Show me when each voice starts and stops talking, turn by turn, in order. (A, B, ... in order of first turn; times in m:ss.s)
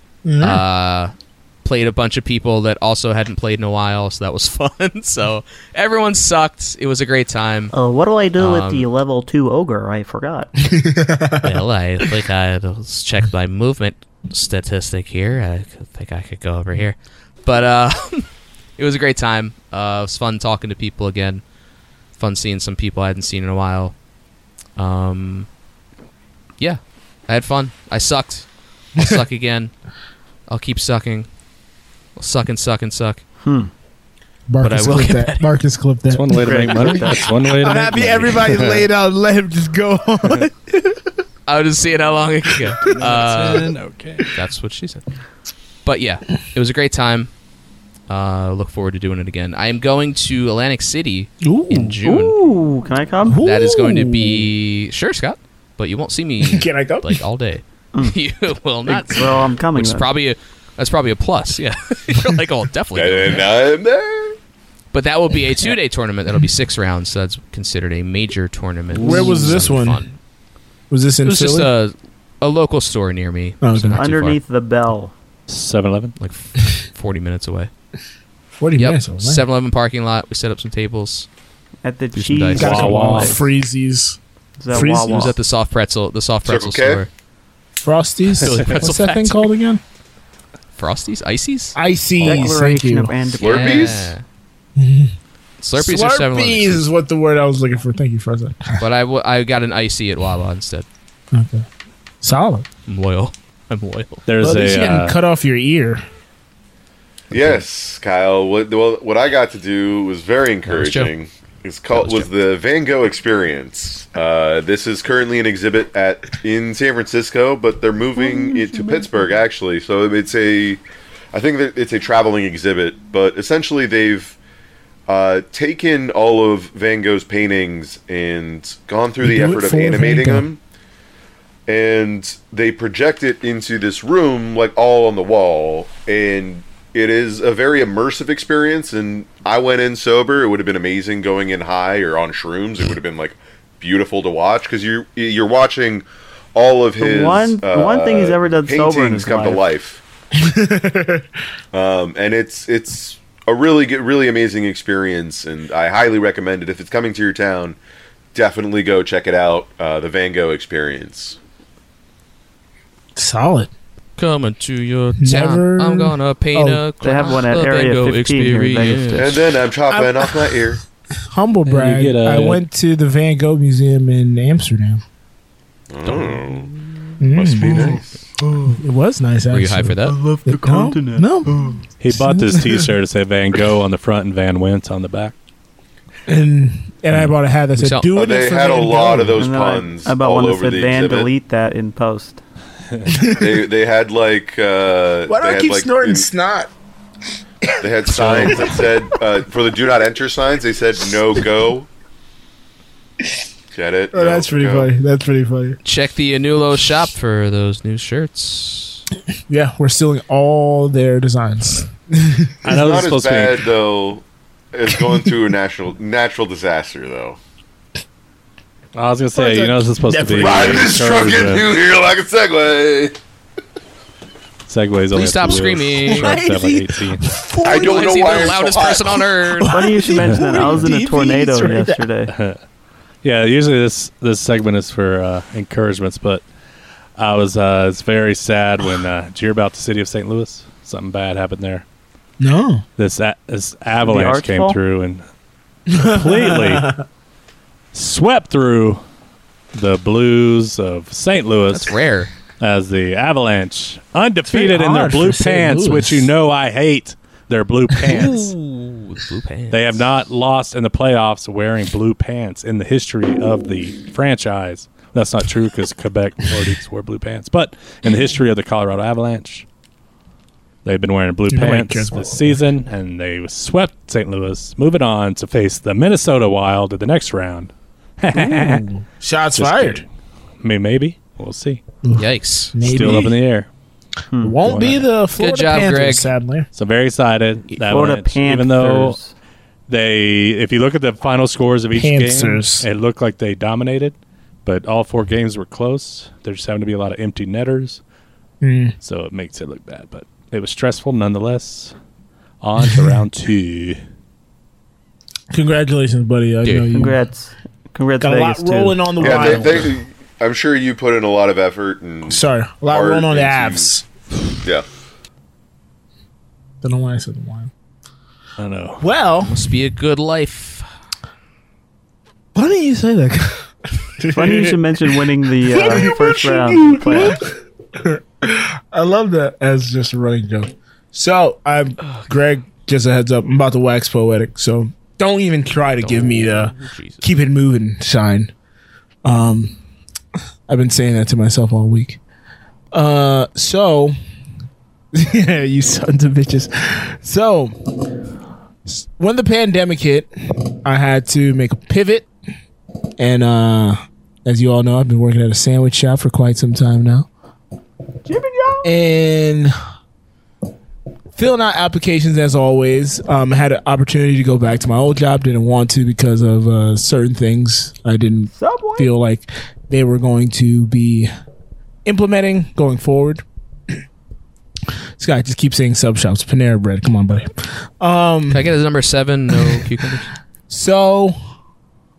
0:00.2-0:00.6 A
0:00.4-0:07.7 B
0:07.7-0:10.5 C
0:08.4-0:08.8 B
0:10.6-0:11.6 A
0:11.4-0:21.4 B
0:22.2-0:24.0 B
0:24.8-0:25.5 B
0:26.6-0:29.7 B
0:30.5-0:31.3 B
0:32.2-0:33.2 B
0:33.4-0:33.7 C
0:34.5-0:37.0 A
0:34.6-0:35.5 B
0:36.1-0:38.8 D
0:36.4-0:37.1 C
0:37.6-0:41.1 A
0:41.5-0:43.7 B
0:42.8-0:44.3 D
0:44.3-0:45.0 B
0:45.8-0:47.3 B
0:48.1-0:52.4 B
0:51.4-0:52.0 A
0:52.0-0:53.4 C
0:53.3-0:54.5 A
0:53.4-1:03.6 B
0:56.4-0:57.2 A
0:58.8-1:00.1 C
1:02.9-1:04.4 E
1:04.9-1:10.1 B
1:09.0-1:10.1 A
1:10.9-1:11.7 A
1:11.2-1:14.4 B
1:13.6-1:14.0 A
1:14.0-1:15.1 C
1:15.5-1:16.2 D
1:16.2-1:17.7 B
1:18.6-1:19.4 A
1:18.8-1:21.3 B
1:21.8-1:23.4 C
1:22.1-1:22.9 B
1:22.6-1:25.3 A
1:22.6-1:23.4 D
1:24.6-1:25.4 C
1:24.7-1:27.1 B
1:26.4-1:27.0 E
1:27.8-1:29.8 A
1:28.4-1:29.5 B
1:30.8-1:32.5 B
1:31.7-1:33.2 A
1:32.2-1:33.9 C
1:33.4-1:34.1 E
1:33.4-1:34.2 B
1:34.8-1:35.1 A
1:35.6-1:36.8 B
1:35.8-1:38.8 A
1:38.8-1:40.8 B
1:41.3-1:41.6 A
1:42.2-1:42.6 A
1:42.9-1:44.2 B
1:44.3-1:45.2 D
1:44.4-1:46.0 A
1:47.3-2:00.8 E
1:50.7-1:51.1 B
1:51.9-1:52.3 B
2:01.3-2:04.4 E
2:05.1-2:10.6 E
2:09.2-2:10.5 A
2:11.7-2:30.0 E
2:27.0-2:29.6 C
2:30.3-2:31.3 A
2:31.7-2:37.8 E
2:38.3-2:41.4 E
2:43.2-2:43.7 A
2:44.2-2:49.4 B
2:45.2-2:46.8 A
2:47.0-2:49.4 C
2:49.2-2:50.8 E
2:49.9-2:50.8 A
2:51.3-2:55.0 A
2:51.6-2:52.6 D
2:55.9-2:56.7 E
2:56.0-2:56.9 B
2:57.2-2:58.0 A
2:57.3-2:58.2 E
2:58.7-3:02.9 A
2:59.5-3:00.2 B
3:00.1-3:01.8 C
3:02.0-3:05.3 D
3:06.3-3:09.4 A
3:07.8-3:08.1 B
3:08.1-3:11.3 E
3:09.4-3:12.4 C
3:13.1-3:13.6 A
3:13.3-3:16.3 E
3:15.2-3:16.7 A
3:17.6-3:19.0 A
3:17.8-3:21.9 E
3:23.7-3:24.9 E
3:24.1-3:25.8 A
3:25.8-3:29.0 B
3:29.5-3:32.6 A
3:32.6-3:33.7 D
3:32.7-3:37.4 E
3:34.9-3:35.3 A
3:38.9-3:41.7 D
3:39.3-3:40.9 A
3:40.4-3:43.2 E
3:44.7-3:47.2 D
3:45.1-3:46.4 B
3:46.0-3:48.1 A
3:47.6-3:49.2 E
3:47.7-3:49.8 B
3:49.6-3:52.0 A
3:49.7-3:52.3 C
3:52.3-3:52.6 D
3:53.2-3:56.4 D
3:57.2-4:01.8 D
4:02.4-4:02.8 A
4:03.0-4:05.2 D
4:04.0-4:04.8 C
4:05.9-4:07.0 A
4:06.0-4:06.9 D
4:07.9-4:09.0 D
4:09.7-4:11.9 D
4:11.7-4:12.3 B
4:12.6-4:18.5 D
4:14.4-4:16.3 A
4:18.1-4:20.0 B
4:19.7-4:29.6 D
4:30.8-4:38.8 D
4:31.5-4:32.6 A
4:38.4-4:40.0 A
4:39.5-4:40.0 D
4:40.6-4:41.8 D
4:42.0-4:43.4 A
4:42.2-4:43.1 B
4:42.8-4:43.7 D
4:44.3-4:44.6 C
4:44.4-4:46.7 A
4:44.6-4:45.0 D
4:45.4-4:46.3 B
4:46.7-4:49.2 D
4:47.7-4:49.3 C
4:49.9-4:54.1 D
4:51.9-4:52.9 A
4:54.6-4:58.0 D
4:58.6-4:58.9 A
4:59.0-5:01.9 D
5:02.6-5:04.0 D
5:02.8-5:03.1 A
5:05.5-5:07.2 A
5:06.6-5:06.9 B
5:06.9-5:09.4 C
5:08.2-5:10.0 A
5:09.2-5:13.9 E
5:12.3-5:14.0 A
5:16.8-5:17.7 A
5:18.6-5:19.0 D
5:19.0-5:19.6 A
5:19.4-5:20.8 B
5:22.5-5:24.8 A
5:24.3-5:27.4 C
5:25.7-5:38.5 A
5:32.0-5:32.3 B
5:36.0-5:37.3 B
5:39.2-5:39.8 A
5:40.7-5:42.2 A
5:42.9-5:44.1 A
5:45.1-5:47.7 A
5:48.8-5:52.3 A
5:53.2-5:57.3 A
5:58.2-5:58.9 C
5:58.8-5:59.7 A
6:01.3-6:11.3 A
6:08.5-6:09.1 C
6:12.0-6:13.4 A
6:15.2-6:18.7 A
6:18.5-6:20.3 B
6:19.5-6:19.8 A
6:20.7-6:21.4 A